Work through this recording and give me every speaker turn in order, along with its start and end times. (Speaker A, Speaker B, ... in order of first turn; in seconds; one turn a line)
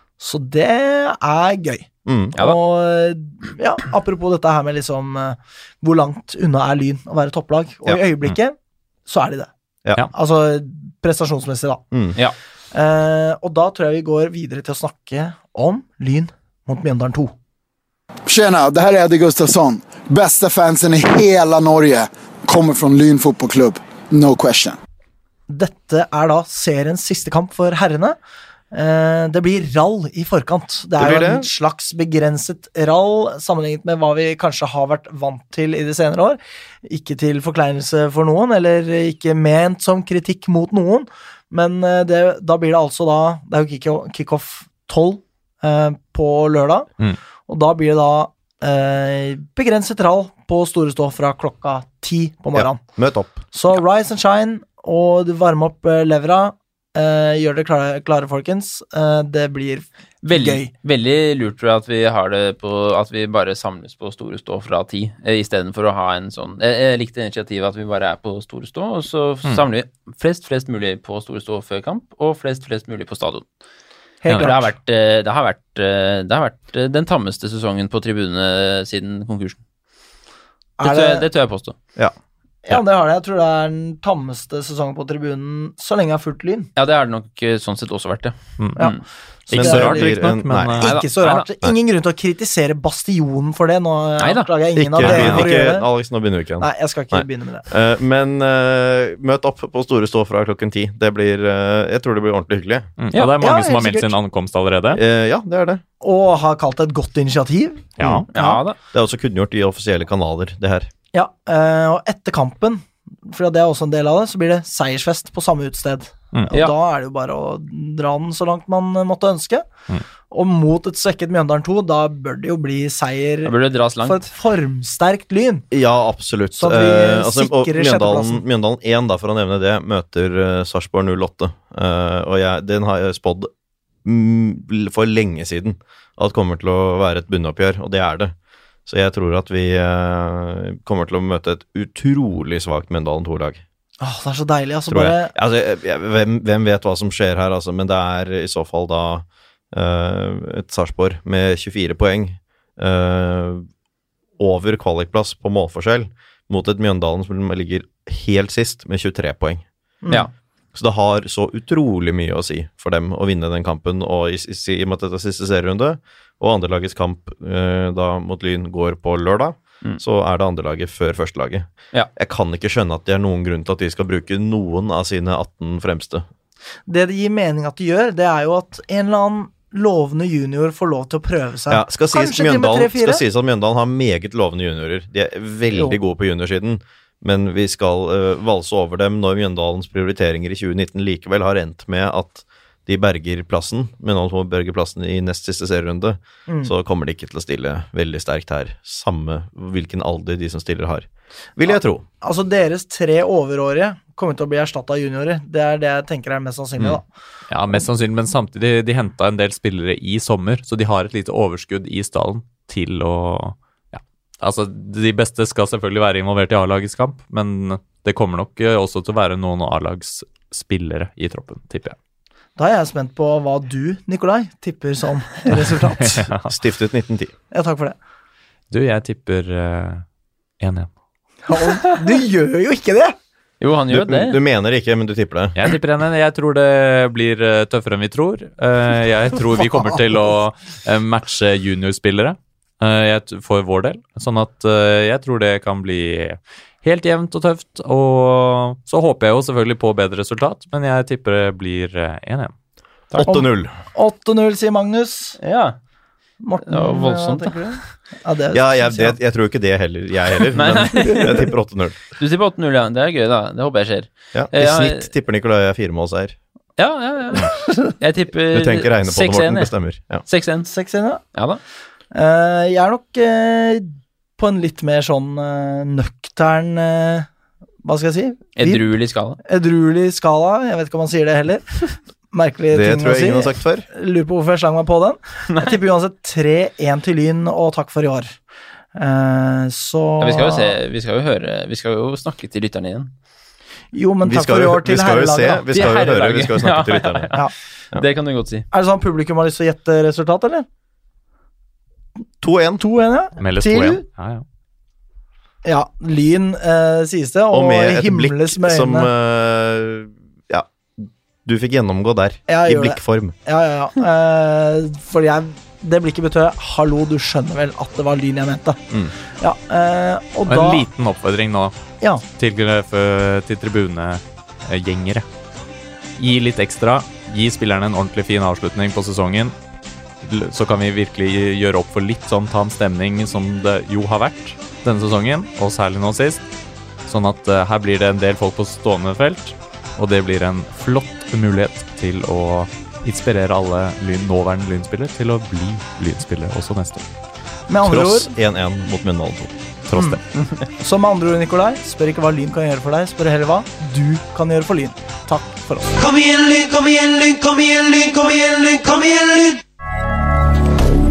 Speaker A: 0.2-8.6
Speaker B: 2.0-2.4
Speaker A: 9.1-9.5
Speaker A: 10.1-11.8
Speaker B: 11.9-12.2
Speaker A: 12.7-17.3
Speaker C: 18.3-24.8
Speaker A: 25.5-28.2
Speaker A: 28.7-46.9
Speaker B: 31.0-31.5
Speaker A: 47.5-52.8
Speaker B: 52.5-53.4
Speaker A: 53.4-60.7
Speaker D: 60.2-73.5
Speaker A: 74.2-74.7
Speaker D: 74.4-79.6
Speaker A: 80.8-81.3
Speaker D: 80.8-81.8
Speaker A: 82.7-86.7
Speaker D: 86.8-89.0
Speaker A: 88.8-95.9
Speaker E: 89.5-90.9
Speaker B: 89.5-90.9
Speaker D: 90.8-91.5
Speaker D: 94.2-94.5
Speaker B: 94.8-102.9
Speaker E: 95.0-95.5
Speaker A: 96.6-97.7
Speaker E: 103.0-105.0
Speaker A: 103.2-104.2
Speaker B: 104.9-105.8
Speaker A: 106.0-108.6
Speaker E: 108.0-108.3
Speaker B: 108.0-108.3
Speaker D: 108.3-108.8
Speaker B: 108.9-110.9
Speaker A: 111.1-119.6
Speaker A: 120.3-125.7
Speaker D: 123.5-124.3
Speaker B: 125.7-133.5
Speaker A: 126.5-128.4
Speaker B: 134.0-138.3
Speaker B: 138.9-143.6
Speaker A: 144.0-145.3
Speaker B: 144.9-153.7
Speaker B: 154.4-159.6
Speaker A: 160.0-160.3
Speaker B: 160.7-176.3
Speaker A: 176.9-183.2
Speaker B: 181.7-202.1
Speaker A: 196.5-196.7
Speaker A: 202.2-207.0
Speaker E: 207.5-222.0
Speaker A: 222.6-226.3
Speaker E: 226.0-226.5
Speaker B: 226.3-227.3
Speaker A: 227.5-227.9
Speaker E: 228.7-230.0
Speaker E: 230.6-230.9
Speaker A: 231.5-233.2
Speaker D: 233.6-234.4
Speaker B: 233.9-235.6
Speaker E: 235.6-252.5
Speaker B: 253.2-253.7
Speaker A: 253.2-255.4
Speaker D: 255.4-255.8
Speaker A: 256.4-259.2
Speaker D: 256.7-257.8
Speaker B: 258.5-262.0
Speaker D: 260.5-261.5
Speaker A: 260.9-261.5
Speaker D: 262.2-265.1
Speaker B: 264.3-266.4
Speaker D: 266.8-269.7
Speaker B: 268.5-270.2
Speaker D: 270.2-270.7
Speaker A: 270.7-271.2
Speaker D: 271.3-271.6
Speaker A: 272.1-277.3
Speaker A: 277.8-278.9
Speaker D: 278.6-279.4
Speaker A: 279.4-281.8
Speaker A: 282.3-288.4
Speaker B: 282.7-283.9
Speaker D: 285.5-285.8
Speaker A: 288.9-290.8
Speaker D: 290.2-293.1
Speaker A: 293.9-295.7
Speaker B: 294.2-297.4
Speaker D: 295.7-297.4
Speaker D: 297.9-298.7
Speaker A: 298.7-300.7
Speaker B: 302.4-302.8
Speaker A: 302.8-304.0
Speaker E: 303.4-304.4
Speaker A: 305.6-309.1
Speaker B: 307.5-313.4
Speaker A: 312.5-318.8
Speaker A: 319.4-320.9
Speaker E: 320.5-321.8
Speaker E: 322.4-325.3
Speaker E: 326.2-329.6
Speaker E: 330.2-336.4
Speaker E: 337.1-347.1
Speaker A: 347.7-348.3
Speaker B: 347.8-349.9
Speaker E: 349.9-350.2
Speaker A: 349.9-350.2
Speaker A: 350.8-355.9
Speaker F: 355.9-359.6